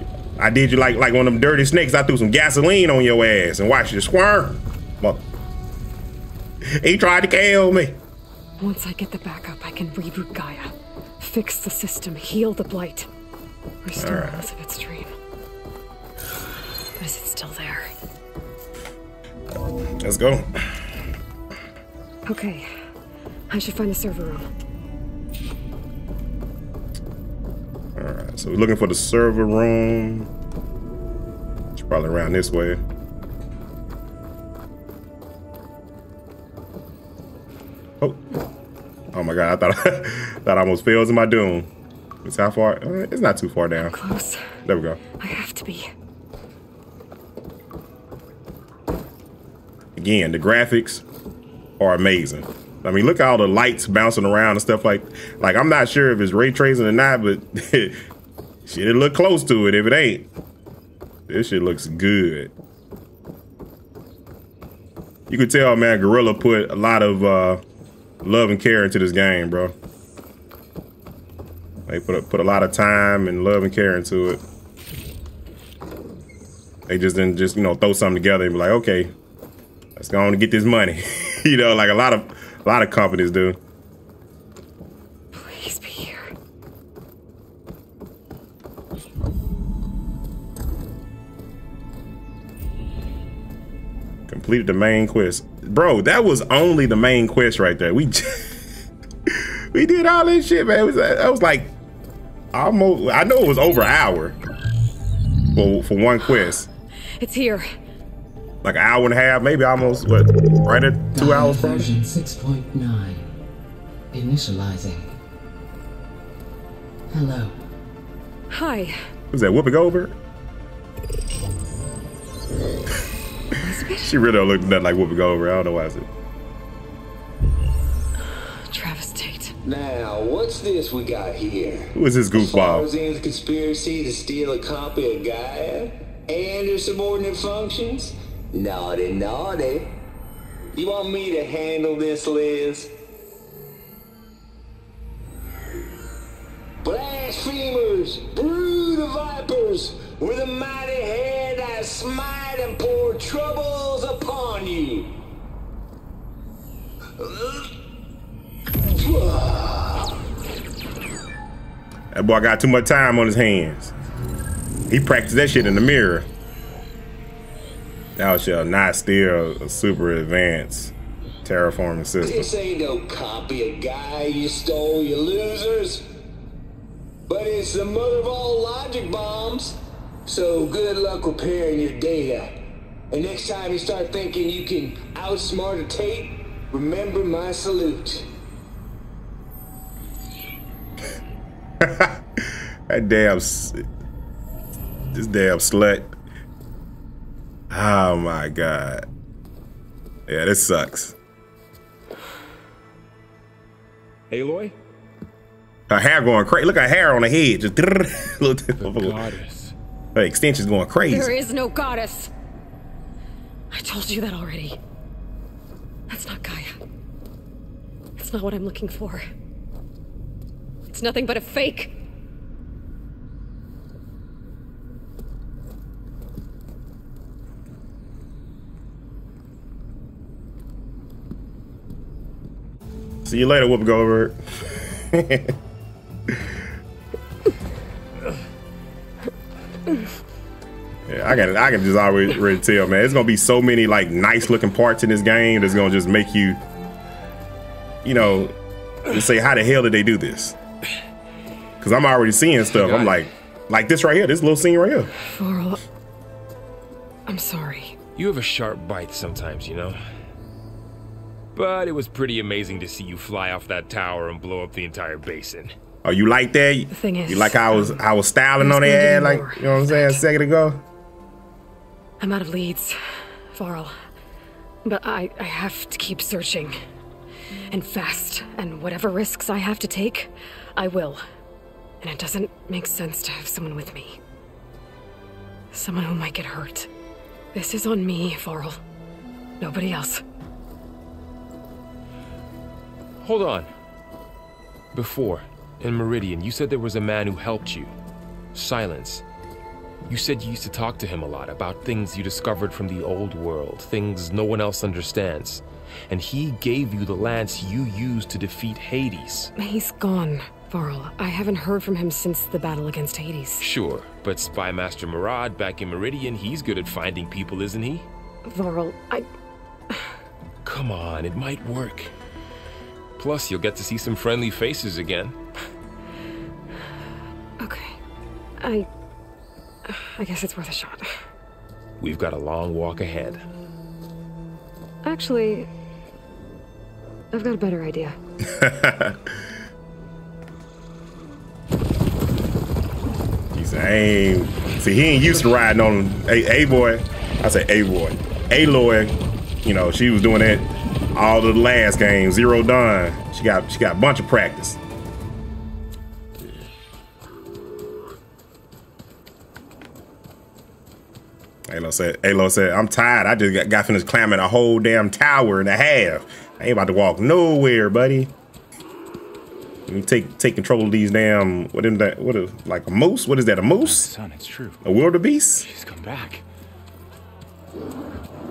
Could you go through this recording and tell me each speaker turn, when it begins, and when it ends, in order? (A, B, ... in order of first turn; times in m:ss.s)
0:00.4-0:05.2 A
0:06.7-0:08.0 A
0:08.6-0:13.1 B
0:13.8-0:15.1 B
0:14.0-0:14.4 A
0:17.0-0:17.9 B
0:20.0-0:20.8 A
0:22.2-0:22.7 B
0:23.5-0:24.5 B
0:28.0-0:30.3 A
0:31.8-0:32.8 A
0:39.1-0:41.7 A
0:42.2-0:43.9 A
0:43.8-0:44.5 B
0:44.6-0:45.0 A
0:45.2-0:45.9 B
0:50.0-0:51.0 A
0:51.8-0:58.0 A
0:58.6-1:00.3 A
1:01.3-1:02.5 A
1:05.3-1:07.6 A
1:08.2-1:09.7 A
1:11.9-1:14.4 A
1:16.9-1:19.1 A
1:20.0-1:23.6 A
1:25.3-1:26.3 B
1:34.3-1:38.5 A
1:39.3-1:41.7 A
1:42.5-1:44.4 A
1:45.5-1:46.7 A
1:47.2-1:47.7 B
1:48.6-1:51.9 A
1:51.1-1:53.2 C
1:54.1-1:55.1 C
1:57.1-1:57.5 C
1:58.5-1:59.0 B
1:59.3-2:00.2 A
2:03.6-2:04.1 B
2:04.0-2:06.1 A
2:08.3-2:09.5 B
2:09.6-2:19.9 D
2:11.9-2:12.9 A
2:20.7-2:22.9 D
2:26.8-2:35.2 D
2:37.2-2:37.7 D
2:38.9-2:40.1 D
2:42.1-2:43.9 A
2:44.9-2:46.3 A
2:48.2-2:50.9 A
2:51.4-2:52.5 A
2:52.2-2:56.1 D
2:57.3-3:02.5 D
3:03.1-3:08.3 D
3:11.8-3:13.8 A
3:15.1-3:16.1 A
3:17.7-3:19.0 A
3:20.3-3:21.1 A
3:25.9-3:29.2 A
3:28.8-3:29.4 E
3:30.1-3:31.3 A
3:31.1-3:32.3 B
3:33.7-3:34.8 B
3:36.1-3:36.8 B
3:38.2-3:39.2 B
3:40.9-3:42.0 B
3:53.2-3:55.5 A
4:01.1-4:06.6 A
4:08.0-4:08.5 A
4:09.1-4:10.6 A
4:11.8-4:15.1 A
4:15.2-4:15.8 B
4:17.3-4:18.0 B
4:18.2-4:20.0 F
4:21.5-4:25.7 F
4:26.0-4:30.8 A
4:26.9-4:28.0 B
4:28.6-4:30.2 B
4:32.2-4:33.0 B
4:33.5-4:33.9 B
4:34.8-4:36.8 B
4:37.7-4:41.2 B
4:42.0-4:44.2 B
4:45.7-4:46.9 B
4:47.5-4:48.8 B
4:49.6-4:50.2 B
4:53.2-4:53.7 F
4:54.9-4:57.9 F
4:58.5-4:59.2 F
5:00.1-5:09.5 F
5:09.6-5:13.7 B
5:13.6-5:18.0 F
5:18.4-5:19.3 B
5:19.9-5:20.2 B
5:20.6-5:22.1 F
5:23.2-5:25.3 F
5:27.6-5:28.0 B
5:28.6-5:28.9 B
5:29.8-5:31.1 B
5:32.0-5:33.4 F
5:35.0-5:35.7 B
5:37.3-5:38.2 B
5:38.4-5:39.3 A
5:43.5-5:54.8 A
6:01.7-6:08.3 A
6:09.9-6:14.1 A
6:13.8-6:14.8 E
6:14.8-6:15.6 A
6:15.6-6:16.4 E